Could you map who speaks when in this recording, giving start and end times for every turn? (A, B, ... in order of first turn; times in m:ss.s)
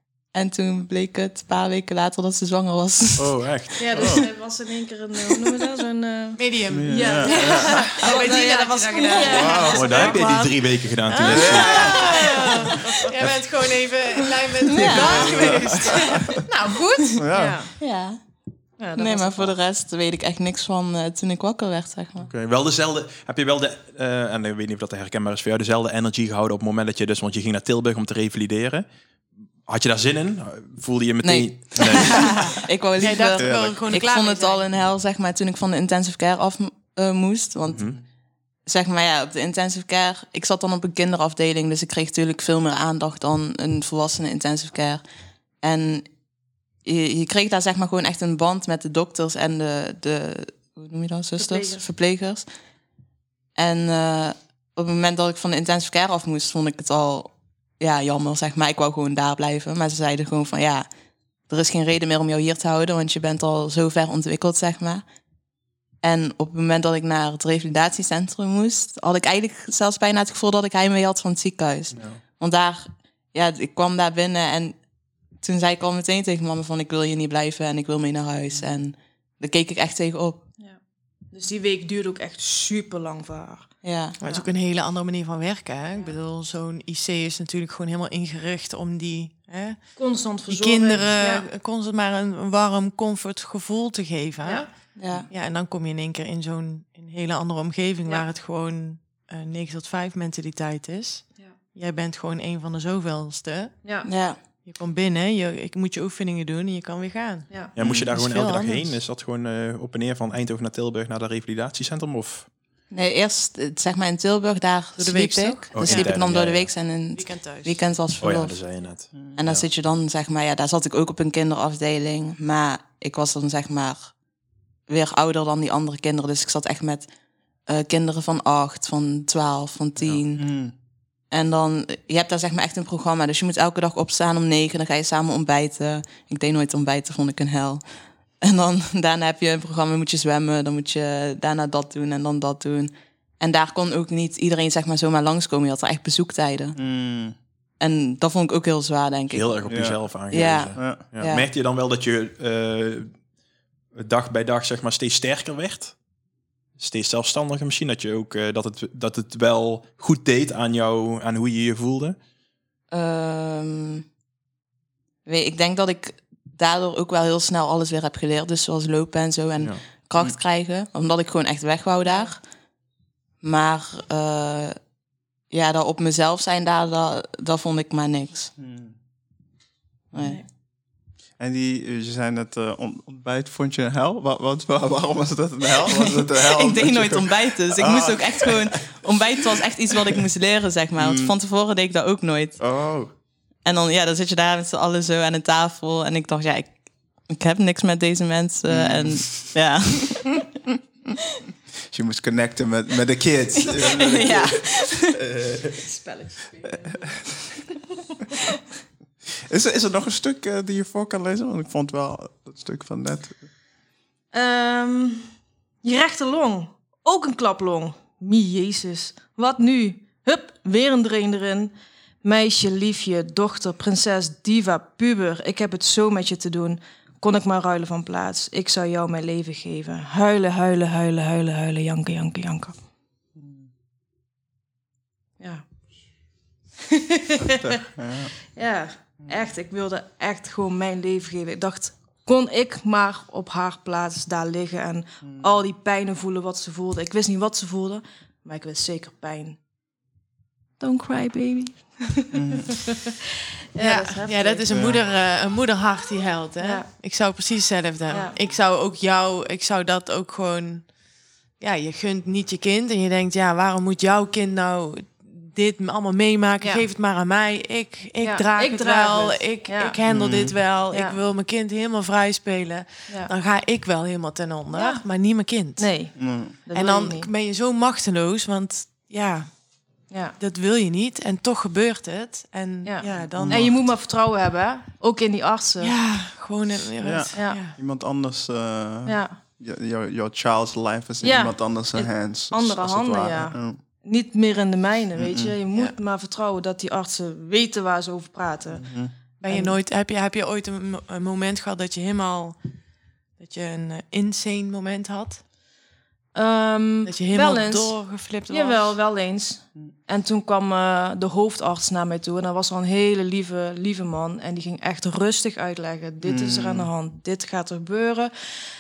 0:00.3-0:03.3 A
0:03.2-0:04.2 B
0:03.8-0:10.3 C
0:04.0-0:04.2 D
0:06.4-0:10.2 E
0:06.7-0:07.8 D
0:08.1-0:09.3 A
0:09.2-0:09.9 D
0:09.7-0:12.0 B
0:09.9-0:10.5 A
0:11.1-0:17.2 E
0:11.2-0:12.0 D
0:11.6-0:13.0 C
0:14.6-0:15.5 A
0:14.8-0:16.4 D
0:17.2-0:17.6 D
0:17.3-0:17.7 C
0:17.8-0:18.2 A
0:18.8-0:19.6 C
0:19.0-0:22.3 A
0:22.2-0:28.8 B
0:29.6-0:32.5 B
0:31.2-0:37.9 A
0:33.0-0:34.6 E
0:33.4-0:33.7 D
0:37.7-0:38.0 B
0:38.6-0:45.0 A
0:45.6-0:46.1 A
0:46.8-0:52.5 A
0:51.4-0:51.8 C
0:53.6-1:00.8 A
1:01.5-1:05.0 A
1:06.0-1:14.8 A
1:11.9-1:12.2 B
1:15.3-1:20.4 A
1:21.3-1:23.7 C
1:23.8-1:24.2 A
1:24.2-1:43.8 E
1:24.2-1:24.5 C
1:30.0-1:31.4 C
1:35.0-1:35.3 A
1:43.8-1:44.1 C
1:44.0-1:44.4 A
1:44.6-1:47.5 E
1:47.7-1:52.5 B
1:47.8-1:48.1 D
1:48.1-1:48.9 E
1:52.9-1:58.6 A
1:55.0-1:56.1 E
1:55.7-1:56.7 B
1:57.1-1:57.8 E
1:58.2-1:59.6 B
1:59.1-1:59.4 D
1:59.4-2:04.1 A
2:04.9-2:07.1 A
2:07.7-2:10.5 A
2:10.3-2:10.7 D
2:11.3-2:17.8 A
2:18.4-2:26.8 A
2:26.8-2:27.3 D
2:27.8-2:31.5 A
2:29.3-2:33.2 B
2:29.7-2:30.0 D
2:30.7-2:31.0 D
2:33.9-2:36.0 B
2:36.8-2:42.2 B
2:42.9-2:44.0 A
2:45.2-2:52.4 A
2:49.6-2:49.8 B
2:53.4-2:54.8 A
2:55.5-2:58.5 A
2:58.6-2:58.9 D
3:00.1-3:00.4 A
3:00.2-3:00.4 C
3:01.4-3:08.8 D
3:05.8-3:12.6 A
3:09.4-3:10.2 D
3:11.0-3:11.3 D
3:12.6-3:13.1 D
3:13.6-3:21.1 A
3:18.7-3:19.4 D
3:21.9-3:25.8 D
3:23.6-3:25.2 A
3:25.9-3:27.2 C
3:26.6-3:27.4 D
3:29.5-3:33.4 D
3:34.3-3:35.3 C
3:35.8-3:41.7 C
3:42.2-3:52.7 C
3:53.4-3:53.7 D
3:56.9-3:57.7 C
3:57.6-3:58.3 D
3:58.5-4:09.6 C
4:10.8-4:12.4 C
4:12.3-4:12.7 D
4:13.7-4:14.8 C
4:13.8-4:20.9 E
4:14.7-4:15.0 D
4:16.6-4:16.8 C
4:18.1-4:18.3 C
4:21.6-4:35.9 E
4:28.2-4:30.0 C
4:30.1-4:30.5 D
4:30.9-4:31.2 C
4:34.7-4:35.0 C
4:35.8-4:37.3 C
4:36.2-4:36.5 D
4:36.7-4:39.8 E
4:40.1-4:40.3 C
4:40.4-4:43.7 E
4:42.8-4:45.9 C
4:43.2-4:43.8 D
4:45.8-4:47.7 E
4:47.0-4:53.8 D
4:49.0-4:49.4 C
4:51.2-4:51.6 C
4:52.5-4:58.8 C
4:55.2-4:55.5 D
4:58.7-4:59.1 D
4:59.4-5:02.6 E
4:59.5-4:59.7 C
5:03.4-5:05.4 E
5:06.3-5:08.0 C
5:07.0-5:09.0 E
5:08.5-5:18.3 C
5:16.2-5:16.9 D